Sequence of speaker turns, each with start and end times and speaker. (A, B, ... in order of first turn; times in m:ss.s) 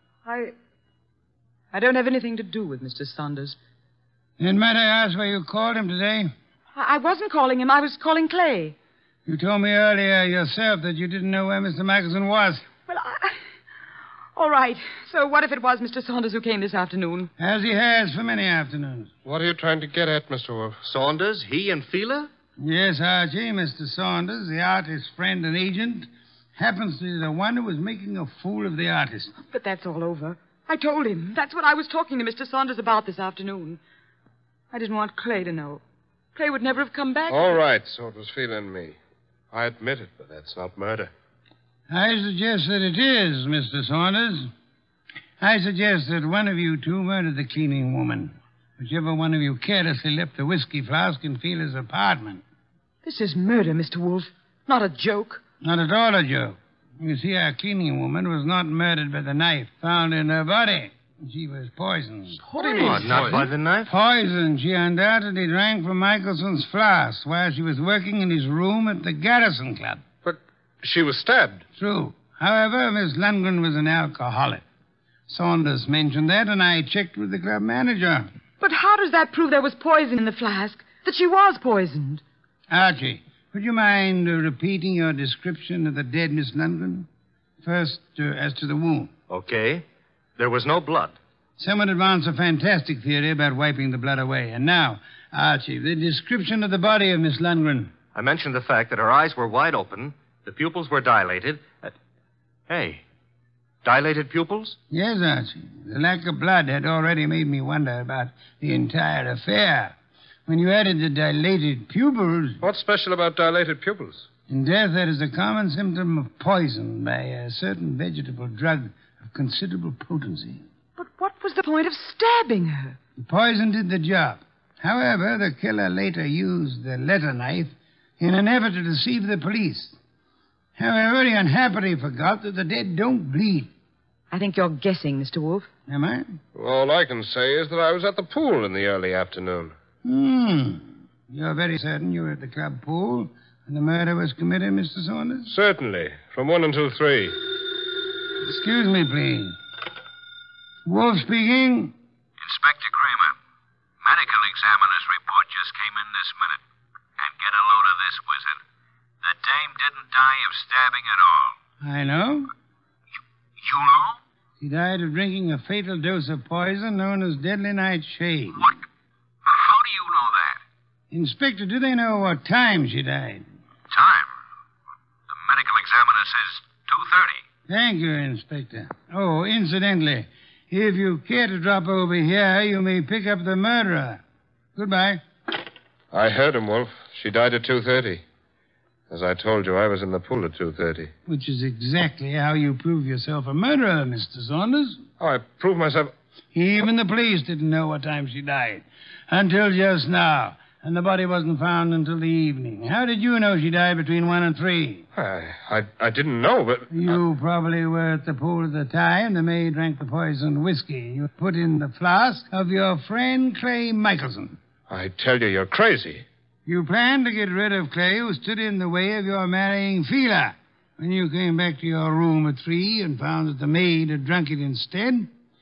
0:00.2-0:00.5 A
0:01.7-0:03.6 A
0:04.4-0:06.3 B
0:06.7-0:08.8 A
0:09.2-0:12.6 B
0:12.9-0:13.4 A
0:14.4-0:17.3 A
0:17.4-0:19.1 B
0:19.2-0:20.8 C
0:20.8-0:22.3 D
0:22.6-0:29.3 B
0:29.4-0:33.8 A
0:34.7-0:35.8 A
0:36.4-0:37.6 A
0:37.3-0:39.0 C
0:39.5-0:41.1 C
0:41.9-0:44.5 B
0:45.4-0:52.4 B
0:53.0-0:55.4 A
0:55.6-1:02.4 B
1:02.5-1:03.4 A
1:02.6-1:03.9 D
1:03.0-1:03.4 C
1:03.2-1:10.0 B
1:10.2-1:11.6 C
1:11.8-1:14.6 B
1:15.3-1:18.3 B
1:18.6-1:22.2 A
1:22.7-1:27.1 B
1:27.6-1:29.1 B
1:29.3-1:29.8 D
1:30.4-1:31.1 D
1:31.6-1:37.9 B
1:38.1-1:41.9 D
1:42.7-1:43.0 D
1:43.8-1:44.8 D
1:44.9-1:52.6 B
1:52.6-1:54.3 C
1:54.5-2:00.6 B
2:01.0-2:03.0 A
2:03.2-2:10.0 B
2:10.8-2:13.7 B
2:14.3-2:15.7 A
2:15.9-2:16.4 B
2:16.5-2:19.7 C
2:20.0-2:25.5 B
2:25.5-2:27.4 C
2:28.4-2:29.6 B
2:30.8-2:31.9 B
2:32.4-2:33.4 E
2:34.0-2:36.6 E
2:37.2-2:38.6 E
2:39.2-2:41.6 E
2:41.8-2:42.5 B
2:43.6-2:44.2 E
2:44.6-2:48.7 B
2:49.4-2:50.6 E
2:51.1-2:53.5 B
2:53.9-2:54.3 E
2:55.3-2:57.4 E
2:57.7-3:04.2 B
3:04.7-3:05.2 B
3:06.1-3:08.2 C
3:09.1-3:11.1 C
3:11.2-3:15.0 B
3:15.2-3:16.1 C
3:16.5-3:25.0 B
3:25.1-3:26.9 C
3:26.9-3:34.6 B
3:34.9-3:36.2 C
3:36.6-3:45.3 B